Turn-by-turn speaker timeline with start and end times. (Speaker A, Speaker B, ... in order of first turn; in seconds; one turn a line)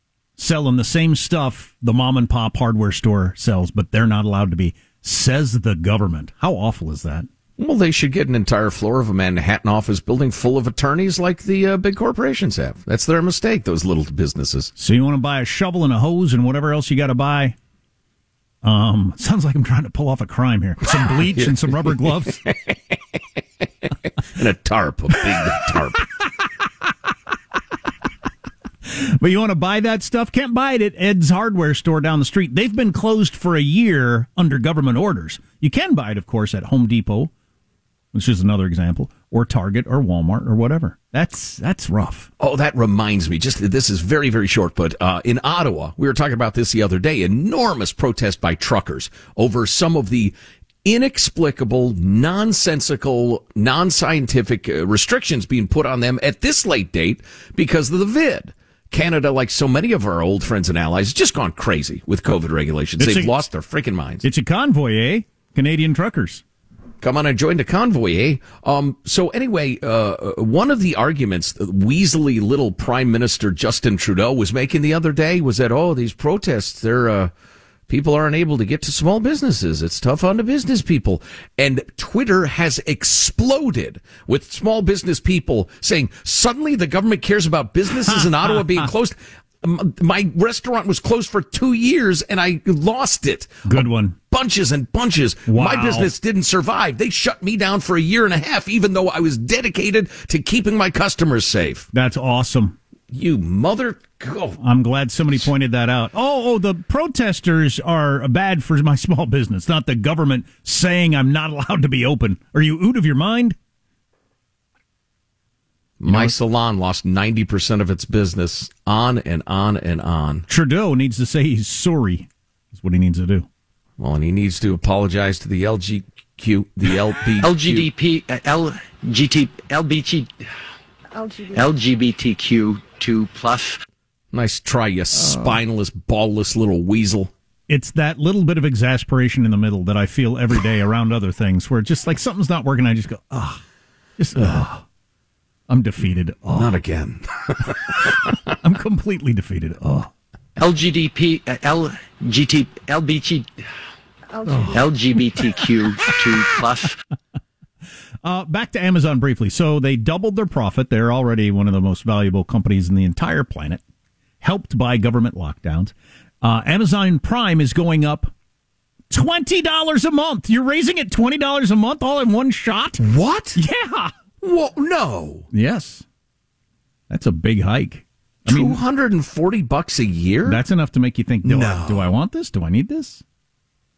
Speaker A: 0.4-7.3
Speaker B: 7.6-14.7
Speaker A: 14.8-17.6
Speaker A: 18.6-22.4
Speaker B: 20.8-23.0
Speaker B: 23.9-26.1
Speaker A: 28.9-37.3
Speaker A: 38.1-42.3
Speaker B: 42.4-64.3
Speaker A: 63.0-63.4
Speaker A: 64.2-66.4
Speaker B: 67.0-77.3
Speaker B: 77.9-101.9
Speaker A: 88.0-88.9
Speaker A: 93.7-94.2
Speaker A: 95.5-96.1
Speaker A: 101.9-102.8
Speaker B: 103.1-104.6
Speaker A: 104.6-113.6
Speaker B: 116.0-120.5
Speaker A: 116.1-116.3
Speaker A: 120.5-123.5
Speaker B: 124.0-127.9
Speaker C: 127.4-130.3
Speaker C: 131.5-133.8
Speaker B: 134.3-137.3
Speaker A: 135.2-135.6
Speaker A: 137.7-143.6
Speaker A: 144.2-144.8
Speaker A: 145.7-146.8
Speaker B: 146.5-148.4
Speaker A: 148.6-150.1
Speaker C: 150.6-153.5
Speaker A: 154.5-154.8
Speaker C: 154.7-156.9
Speaker A: 158.2-163.8
Speaker A: 164.4-168.3
Speaker A: 169.1-173.0
Speaker B: 173.0-173.6
Speaker A: 173.6-174.1
Speaker B: 174.4-175.5
Speaker A: 175.5-176.1
Speaker A: 177.1-178.8
Speaker B: 178.5-180.6
Speaker A: 180.5-183.2
Speaker B: 181.4-182.1